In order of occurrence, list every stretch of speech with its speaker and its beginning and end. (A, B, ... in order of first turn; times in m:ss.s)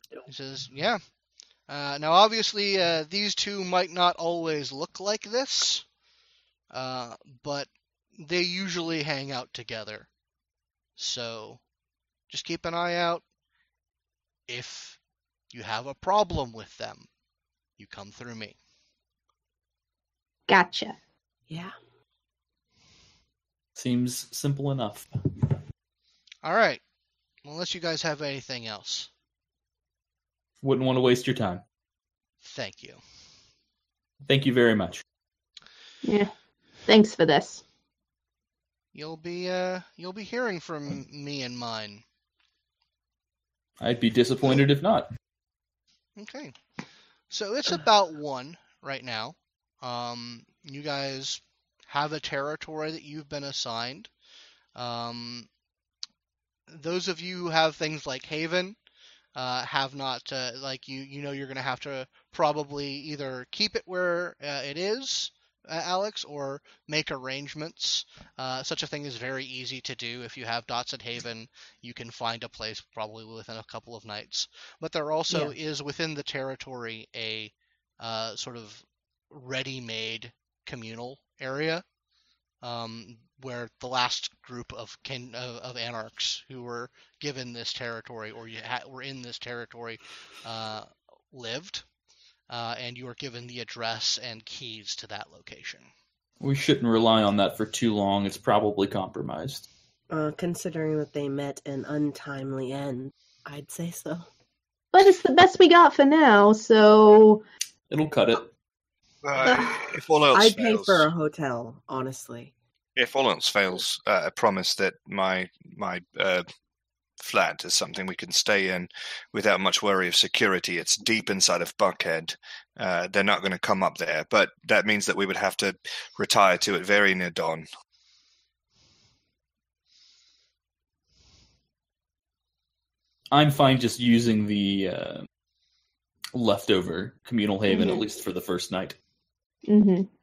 0:00.2-0:01.0 A
0:01.7-0:05.9 A
0:06.7-0:10.1 A
0:11.0-0:11.6 A
0:12.3-0:13.2 A
0:14.5-0:15.0 A
0:15.5-0:17.1 A
0:17.8-0:18.6 A
0:20.5-0:21.0 B
0:21.5-0:21.7 C
0:23.8-0:25.1 D
0:26.4-0:26.8 A
0:27.4-0:29.1 A
0:30.6-0:31.6 D
0:32.4-0:33.0 A
0:34.2-0:35.0 D
0:36.0-0:36.3 B
0:36.8-0:37.6 B
0:38.9-0:42.0 A
0:43.8-0:45.1 D
0:46.2-0:46.5 A
0:47.3-0:54.1 A
0:54.7-0:55.5 A
0:56.7-0:58.8 A
0:59.3-1:21.8 A
1:22.6-1:31.8 A
1:32.5-1:35.9 A
1:36.4-1:39.6 D
1:40.1-1:44.3 C
1:44.9-1:47.4 B
1:47.9-1:48.5 D
1:49.2-1:51.1 E
1:49.4-1:49.9 B
1:50.3-1:52.5 C
1:53.0-1:56.4 E
1:57.2-2:07.6 E
2:13.3-2:15.2 D
2:16.3-2:19.0 D
2:17.7-2:18.0 B
2:19.6-2:20.1 B